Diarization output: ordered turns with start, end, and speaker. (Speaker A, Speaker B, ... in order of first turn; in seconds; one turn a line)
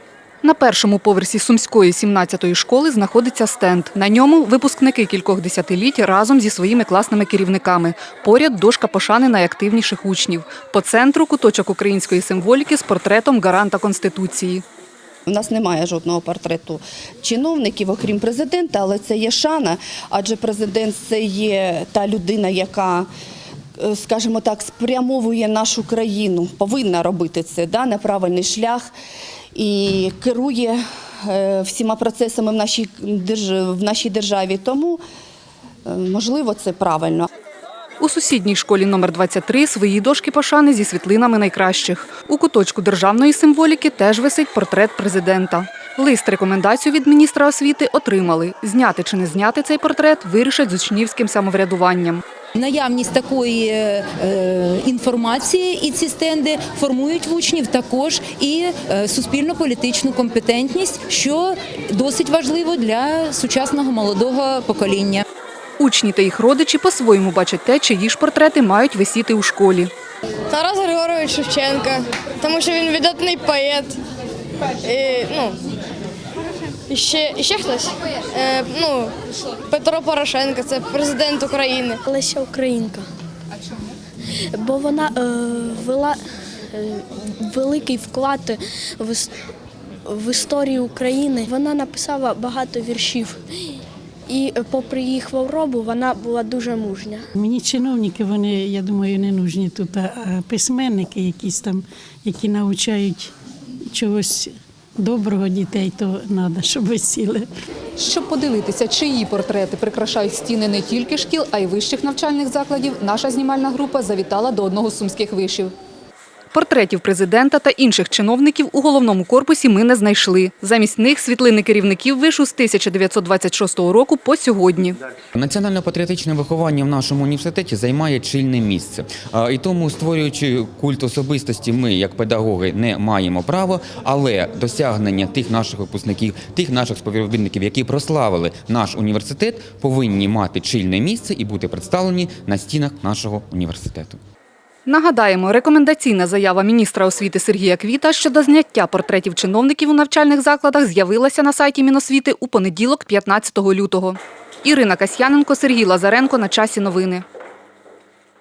Speaker A: 0.4-14.6
Speaker B: 15.3-23.1
Speaker B: 23.8-28.9
Speaker B: 29.6-35.0
Speaker B: 35.9-37.3
Speaker A: 38.0-52.2
Speaker C: 52.5-65.2
Speaker A: 65.8-69.9
Speaker D: 70.5-74.0
Speaker D: 74.8-75.6
Speaker D: 76.9-82.1
Speaker E: 82.1-83.0
Speaker E: 84.5-86.2
Speaker E: 86.7-89.3
Speaker E: 90.1-93.4
Speaker E: 94.3-97.2
Speaker F: 97.4-103.3
Speaker F: 103.9-107.5
Speaker A: 108.0-115.7
Speaker A: 116.5-125.0
Speaker G: 125.3-144.2
Speaker A: 144.9-157.2